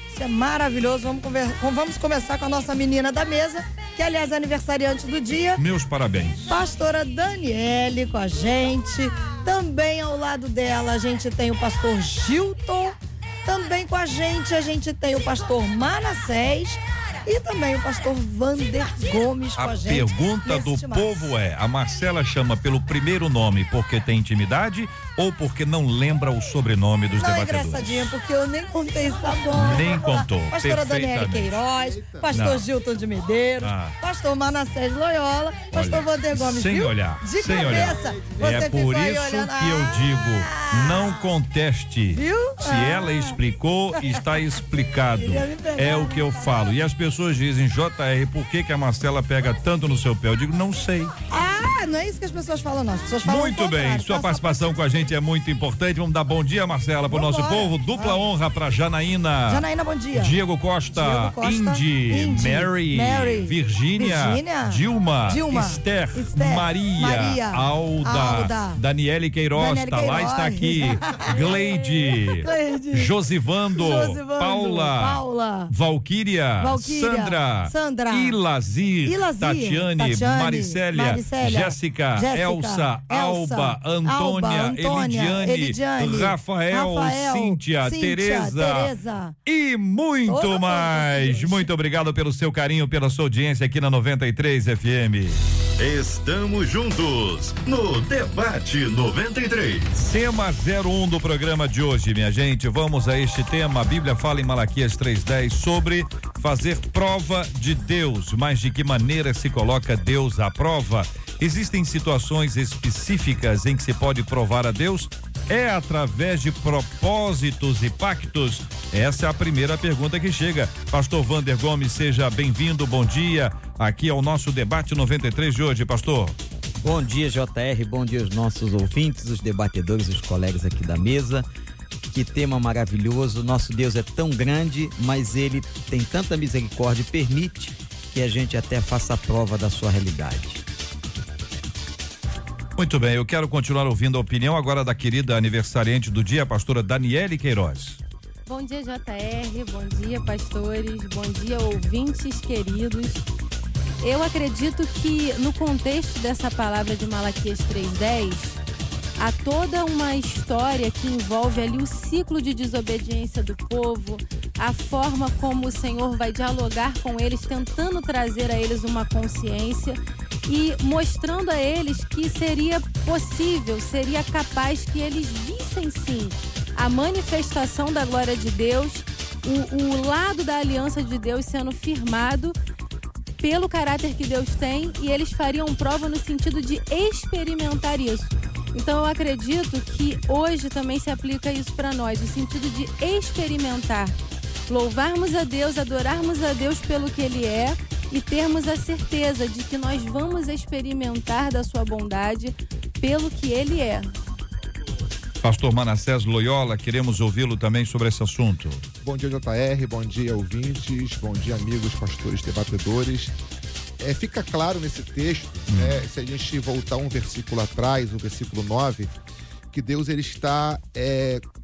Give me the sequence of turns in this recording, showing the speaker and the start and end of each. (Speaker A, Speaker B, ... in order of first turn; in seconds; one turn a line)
Speaker A: 0.1-5.6
Speaker B: 5.6-6.5
Speaker A: 6.5-21.3
Speaker B: 19.6-28.1
Speaker A: 27.2-41.3
Speaker B: 29.5-31.6
Speaker C: 31.7-32.3
Speaker B: 32.3-32.7
Speaker B: 33.6-34.0
Speaker B: 35.7-51.1
Speaker C: 37.8-38.4
Speaker A: 42.1-43.4
Speaker A: 44.0-44.2
Speaker A: 45.1-46.7
Speaker A: 51.3-54.7
Speaker B: 53.2-88.9
Speaker A: 57.1-58.2
Speaker A: 59.5-60.4
Speaker A: 60.9-68.8
Speaker A: 69.5-73.2
Speaker A: 73.7-75.7
Speaker A: 76.6-78.4
Speaker A: 79.0-89.3
Speaker B: 89.5-95.4
Speaker A: 90.3-91.7
Speaker D: 95.8-100.1
Speaker B: 100.0-126.4
Speaker E: 126.8-131.5
Speaker E: 132.0-140.6
Speaker B: 142.8-148.0
Speaker F: 148.5-153.3
Speaker F: 154.0-158.6
Speaker F: 159.2-182.6
Speaker F: 183.4-194.2
Speaker F: 194.7-204.1
Speaker B: 205.4-208.8
Speaker C: 209.0-213.3
Speaker C: 214.0-219.2
Speaker B: 215.7-216.0
Speaker C: 219.7-221.4